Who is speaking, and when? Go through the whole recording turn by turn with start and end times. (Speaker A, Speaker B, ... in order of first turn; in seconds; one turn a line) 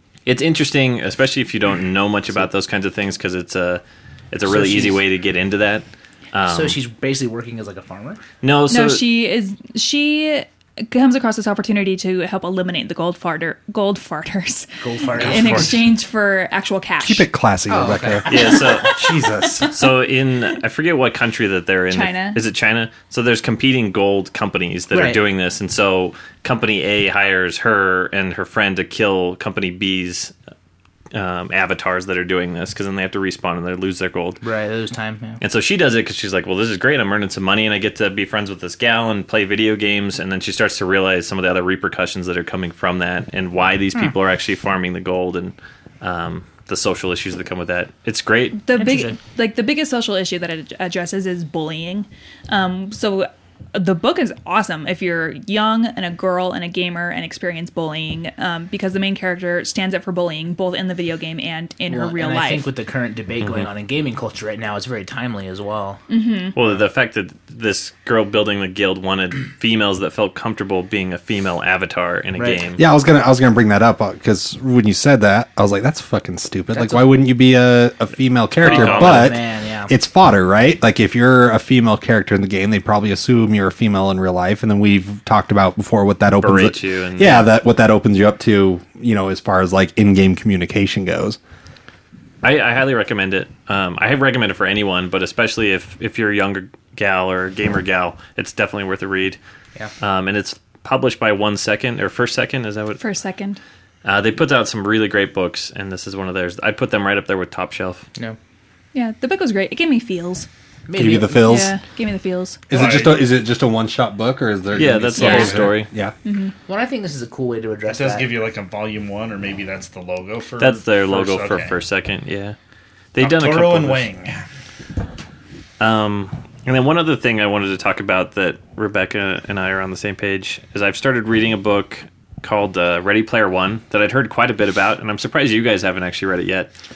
Speaker A: 0.2-6.8
Speaker B: 4.5-5.0
Speaker B: 6.5-8.2
Speaker A: 8.4-9.0
Speaker C: 8.7-17.3
Speaker B: 14.8-15.8
Speaker A: 15.2-15.7
Speaker D: 17.0-19.7
Speaker B: 17.7-18.3
Speaker A: 18.3-19.0
Speaker C: 18.5-19.7
Speaker A: 19.7-30.3
Speaker C: 21.9-22.4
Speaker B: 24.9-25.2
Speaker A: 31.1-34.4
Speaker B: 34.4-35.4
Speaker A: 35.4-48.6
Speaker C: 48.6-62.7
Speaker B: 48.8-49.2
Speaker B: 61.9-66.0
Speaker C: 66.1-66.5
Speaker A: 66.5-72.8
Speaker B: 72.4-72.6
Speaker D: 72.8-91.4
Speaker B: 76.7-77.2
Speaker A: 78.6-79.4
Speaker B: 78.6-79.9
Speaker A: 86.4-87.5
Speaker A: 92.4-99.4
Speaker A: 100.0-103.0
Speaker C: 103.0-103.6
Speaker A: 104.0-108.0
Speaker C: 108.9-110.5
Speaker B: 110.9-111.5
Speaker D: 110.9-111.8
Speaker C: 111.4-112.6
Speaker D: 112.7-116.1
Speaker E: 112.7-113.2
Speaker A: 114.7-115.9
Speaker C: 115.2-115.6
Speaker C: 116.2-116.5
Speaker B: 116.7-118.4
Speaker E: 117.9-121.8
Speaker A: 120.6-122.5
Speaker A: 123.1-124.1
Speaker E: 123.2-124.4
Speaker A: 125.8-136.7